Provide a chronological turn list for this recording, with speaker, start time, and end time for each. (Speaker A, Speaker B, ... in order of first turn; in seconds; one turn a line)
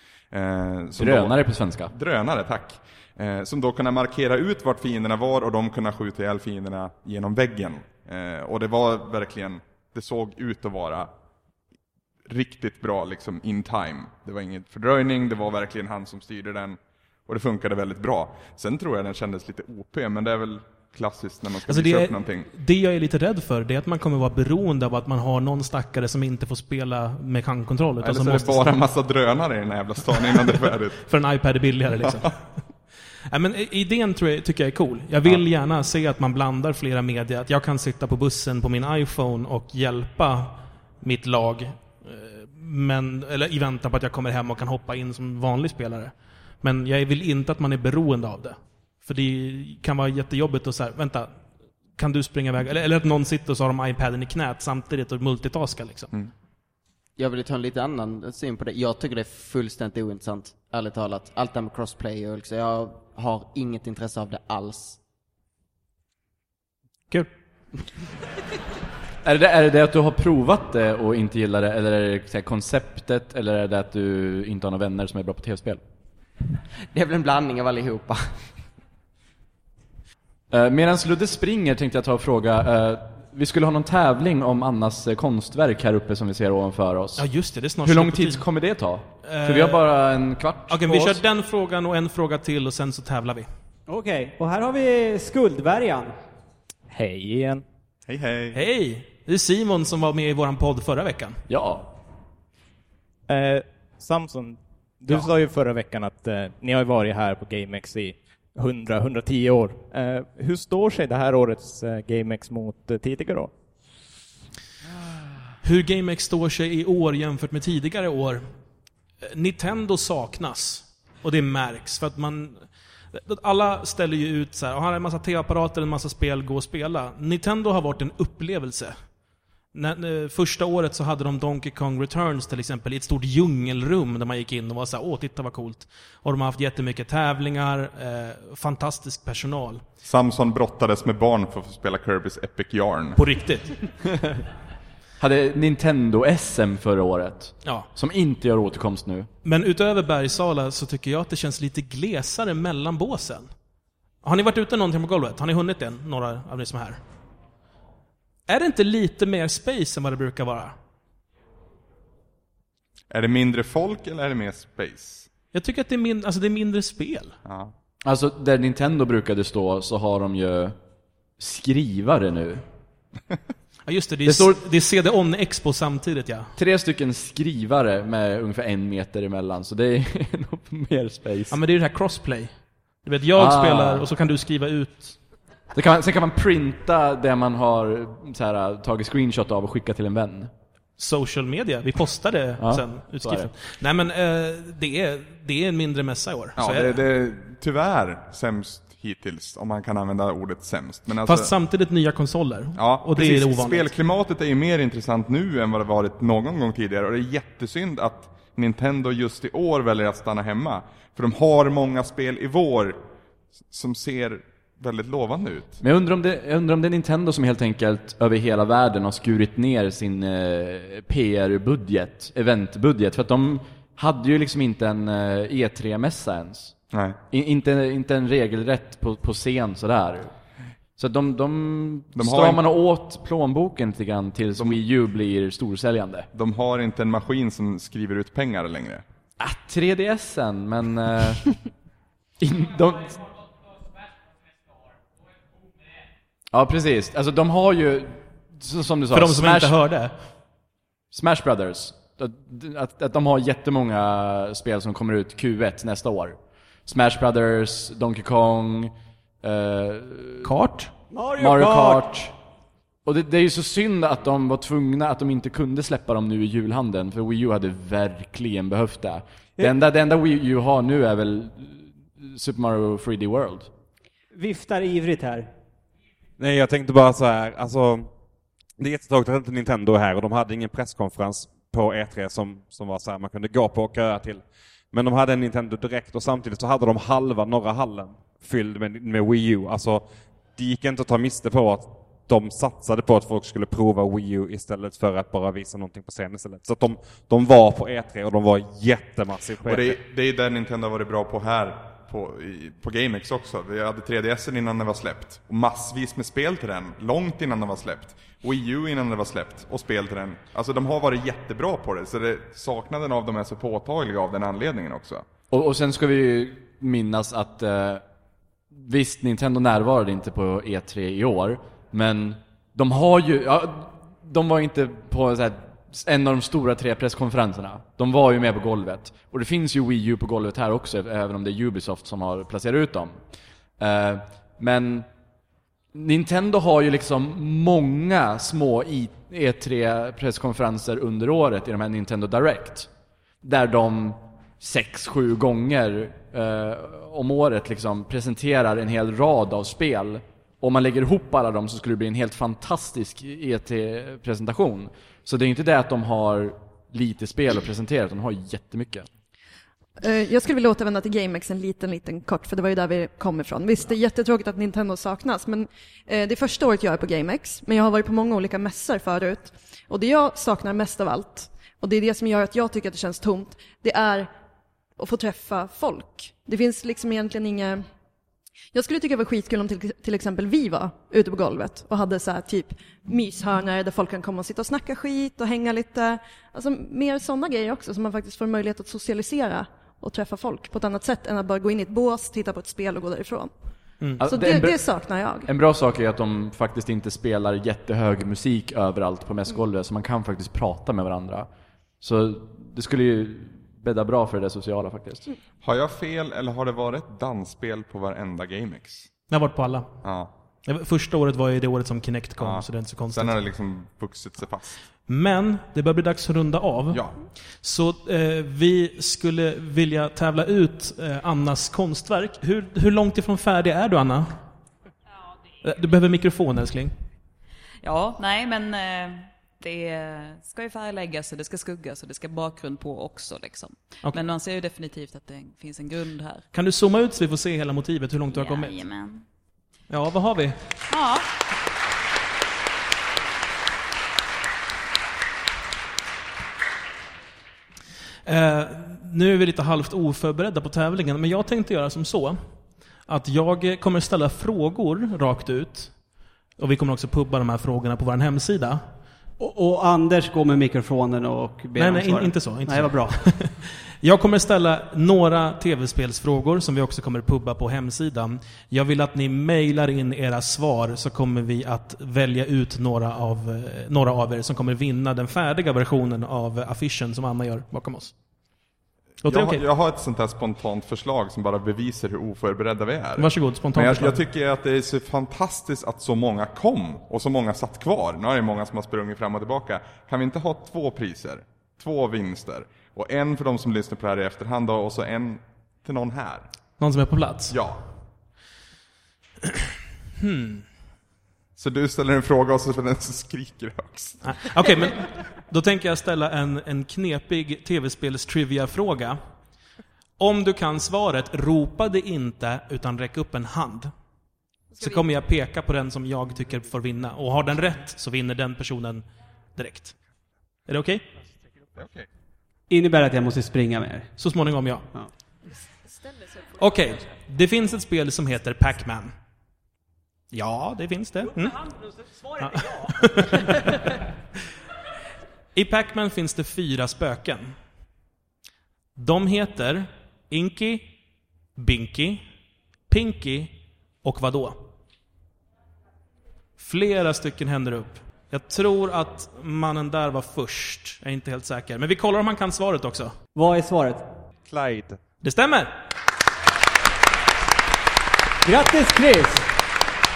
Speaker A: 0.3-1.4
Speaker B: 1.0-1.9
Speaker A: 1.9-11.1
Speaker A: 12.2-22.5
Speaker C: 21.7-28.8
Speaker A: 28.0-31.0
Speaker C: 31.1-32.4
Speaker C: 33.3-51.4
Speaker C: 51.9-56.1
Speaker D: 57.2-65.0
Speaker B: 69.2-75.8
Speaker D: 76.9-78.5
Speaker B: 80.5-87.2
Speaker C: 87.2-88.4
Speaker B: 87.8-91.2
Speaker C: 89.2-89.8
Speaker C: 90.7-93.5
Speaker E: 93.9-96.1
Speaker F: 96.9-98.5
Speaker C: 98.5-101.4
Speaker B: 101.5-101.9
Speaker F: 103.3-113.5
Speaker C: 115.6-118.5
Speaker C: 119.2-129.0
Speaker C: 129.7-139.8
Speaker A: 140.0-143.2
Speaker C: 143.2-143.7
Speaker B: 145.2-149.3
Speaker C: 147.6-147.9
Speaker C: 149.4-153.5
Speaker C: 154.2-157.0
Speaker C: 158.5-160.8
Speaker A: 163.1-165.3
Speaker C: 165.5-167.3
Speaker A: 167.4-167.7
Speaker B: 168.0-170.8
Speaker B: 171.4-172.6
Speaker C: 173.8-176.5
Speaker B: 174.2-174.6
Speaker B: 176.6-181.6
Speaker C: 181.5-185.2
Speaker B: 183.4-184.1
Speaker B: 185.7-190.5
Speaker C: 191.0-197.0
Speaker B: 192.6-193.5
Speaker A: 196.6-201.5
Speaker C: 201.2-203.9
Speaker A: 202.8-213.0
Speaker A: 213.7-215.8
Speaker B: 215.8-226.7
Speaker A: 226.9-227.2
Speaker B: 227.3-230.3
Speaker B: 231.0-236.3
Speaker A: 232.2-232.6
Speaker A: 236.3-239.0
Speaker B: 239.4-241.6
Speaker B: 242.4-243.2
Speaker B: 246.5-249.8
Speaker C: 249.1-250.1
Speaker B: 251.1-260.5
Speaker C: 260.4-260.9
Speaker E: 261.1-262.0
Speaker B: 261.4-262.3
Speaker B: 263.0-273.7
Speaker E: 274.3-275.5
Speaker G: 276.4-278.1
Speaker G: 278.8-300.0
Speaker A: 299.6-315.2
Speaker B: 315.5-318.0
Speaker B: 318.7-333.2
Speaker B: 333.8-335.1
Speaker B: 335.9-342.9
Speaker B: 343.4-359.1
Speaker H: 360.0-374.3
Speaker H: 375.0-377.9
Speaker H: 378.7-393.5
Speaker C: 394.0-394.2
Speaker B: 394.2-401.5
Speaker H: 394.2-395.5
Speaker B: 402.0-405.2
Speaker A: 405.6-409.1
Speaker C: 409.3-409.9
Speaker A: 410.0-410.3
Speaker C: 410.7-413.4
Speaker A: 412.4-414.8
Speaker C: 415.1-424.4
Speaker C: 425.6-426.9
Speaker I: 427.8-436.4
Speaker C: 436.5-438.8
Speaker I: 438.3-439.2
Speaker C: 439.9-440.6
Speaker I: 440.9-441.2
Speaker C: 448.2-452.4
Speaker C: 453.1-456.0
Speaker C: 456.6-458.8
Speaker E: 459.4-463.2
Speaker C: 461.8-478.1
Speaker C: 479.2-479.6
Speaker A: 479.3-496.4
Speaker C: 483.2-484.2
Speaker C: 496.8-497.5
Speaker A: 497.5-497.8
Speaker C: 500.2-500.7
Speaker A: 501.6-504.6
Speaker C: 504.2-509.2
Speaker C: 510.2-513.9
Speaker C: 514.8-520.0
Speaker C: 520.7-521.0
Speaker A: 521.8-522.0
Speaker E: 522.7-524.1
Speaker C: 524.2-524.9
Speaker C: 526.5-529.1
Speaker C: 530.3-531.6
Speaker C: 532.4-533.8
Speaker C: 535.5-537.6
Speaker C: 539.0-541.0
Speaker C: 541.5-542.3
Speaker C: 542.9-544.6
Speaker C: 546.6-553.1
Speaker E: 553.4-554.1
Speaker G: 554.5-555.0
Speaker C: 555.2-555.7
Speaker E: 558.4-559.5